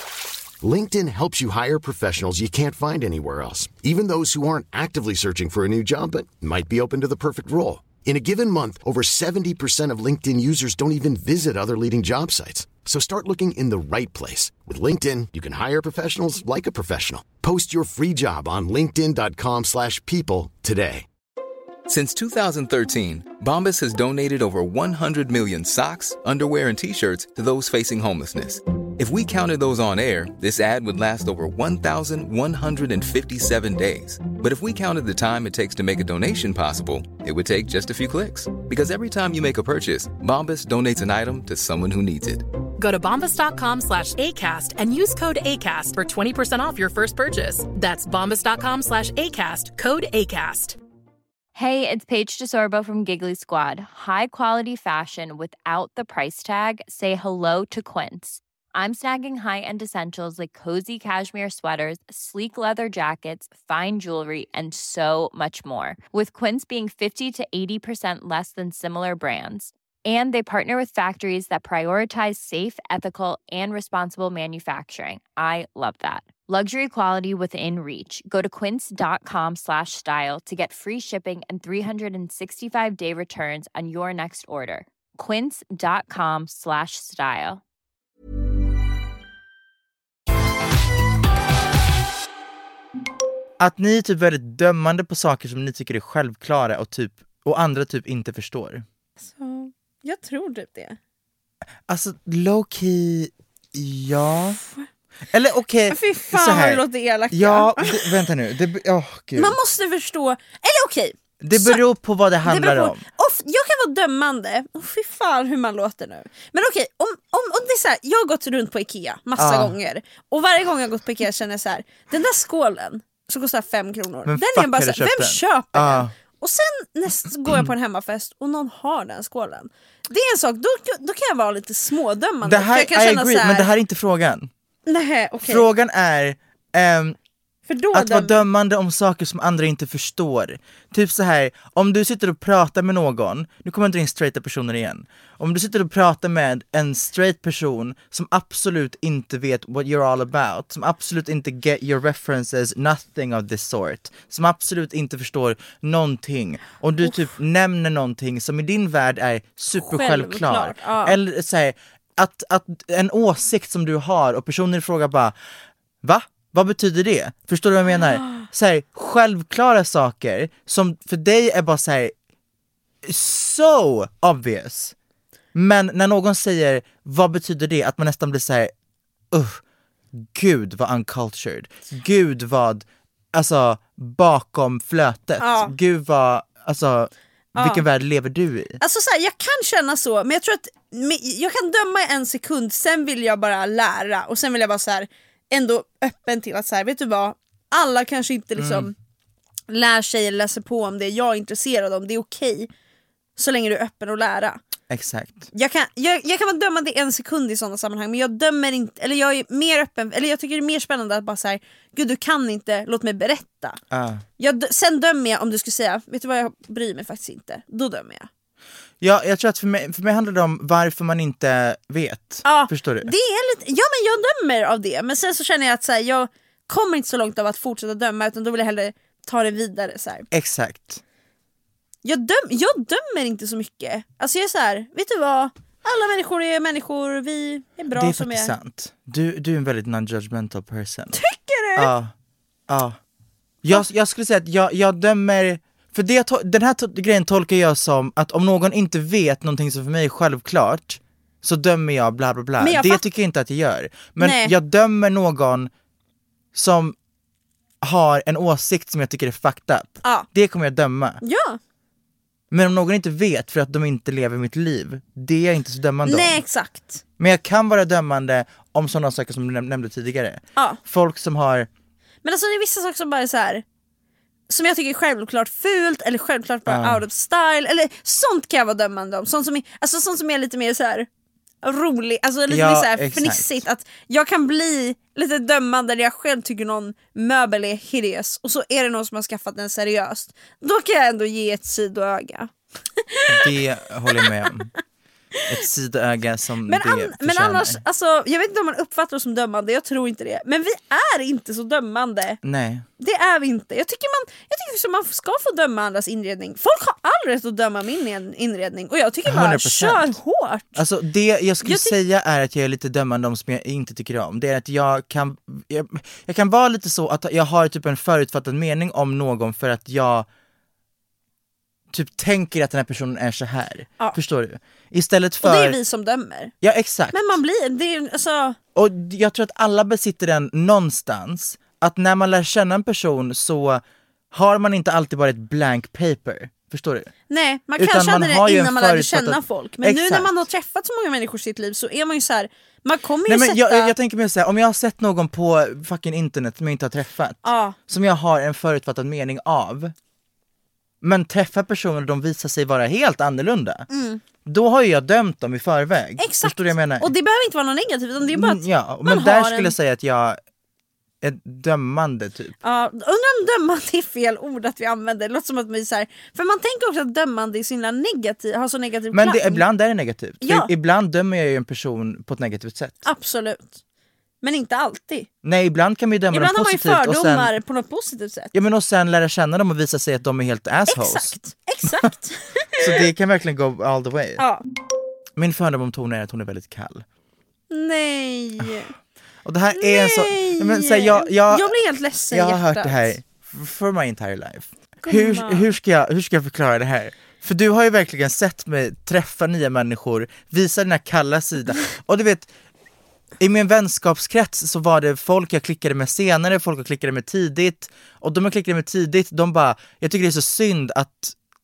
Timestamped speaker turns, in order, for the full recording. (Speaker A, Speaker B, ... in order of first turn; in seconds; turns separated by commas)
Speaker A: 0.6-21.1, Speaker B: 21.9-42.5, Speaker C: 42.8-50.8, Speaker D: 51.5-87.6, Speaker E: 93.6-98.8, Speaker F: 99.2-101.0, Speaker E: 101.9-104.6, Speaker E: 105.3-109.6, Speaker F: 105.9-108.3, Speaker F: 109.4-111.8, Speaker E: 111.4-113.0, Speaker F: 112.4-133.7, Speaker E: 119.4-119.8, Speaker E: 124.3-126.1, Speaker E: 132.4-134.5, Speaker F: 134.9-135.7, Speaker E: 135.4-137.2, Speaker F: 137.7-138.4, Speaker E: 137.9-165.3, Speaker F: 159.8-161.2, Speaker E: 166.0-172.1, Speaker F: 168.2-168.4, Speaker E: 173.0-174.9, Speaker E: 175.5-178.7, Speaker E: 179.3-179.6, Speaker E: 180.1-188.8, Speaker F: 185.4-185.7, Speaker F: 187.6-187.8, Speaker F: 188.8-198.9, Speaker E: 198.6-198.9, Speaker F: 199.7-202.7, Speaker F: 203.4-204.6, Speaker E: 204.9-205.5, Speaker F: 205.5-213.8, Speaker E: 213.9-214.2, Speaker F: 214.4-218.3, Speaker E: 219.0-223.1, Speaker F: 222.4-230.3, Speaker E: 230.3-231.0, Speaker F: 232.0-238.5, Speaker E: 237.9-241.2, Speaker F: 241.1-241.9, Speaker E: 241.8-242.1, Speaker E: 242.7-243.0, Speaker E: 243.6-255.7, Speaker F: 252.6-253.0, Speaker F: 254.2-254.6, Speaker E: 256.5-257.0, Speaker E: 257.8-261.2, Speaker F: 261.2-261.6, Speaker E: 262.5-266.4, Speaker F: 266.1-267.0, Speaker E: 267.2-271.7, Speaker F: 272.2-273.6, Speaker F: 274.5-281.1, Speaker E: 276.7-277.0, Speaker F: 281.6-293.6, Speaker E: 282.5-283.6, Speaker E: 293.3-294.7, Speaker F: 294.2-294.5, Speaker E: 295.5-297.8, Speaker F: 296.7-302.4, Speaker E: 302.4-302.9, Speaker F: 303.0-310.8, Speaker E: 309.3-310.2, Speaker E: 310.8-320.3, Speaker F: 311.6-312.0, Speaker E: 321.9-325.8, Speaker F: 325.4-326.5, Speaker E: 326.6-327.4, Speaker F: 327.1-328.6, Speaker E: 328.8-337.1, Speaker F: 337.3-343.9, Speaker E: 337.8-340.4, Speaker E: 343.3-349.9, Speaker F: 347.4-347.8, Speaker E: 351.0-353.9, Speaker F: 353.9-354.2, Speaker E: 354.4-357.1, Speaker F: 356.2-359.7, Speaker E: 358.3-360.4, Speaker E: 361.2-362.6, Speaker F: 362.6-369.6, Speaker E: 369.1-373.1, Speaker F: 370.4-370.7, Speaker F: 373.1-373.8, Speaker F: 374.4-375.3, Speaker E: 375.4-377.5, Speaker F: 376.3-378.5, Speaker E: 378.5-381.4, Speaker F: 380.9-383.1, Speaker E: 382.8-384.4, Speaker F: 384.4-384.6, Speaker E: 385.4-387.1, Speaker F: 387.7-388.9, Speaker E: 389.4-391.8, Speaker F: 389.8-393.1, Speaker E: 392.3-402.5, Speaker F: 395.0-395.7, Speaker E: 403.4-411.4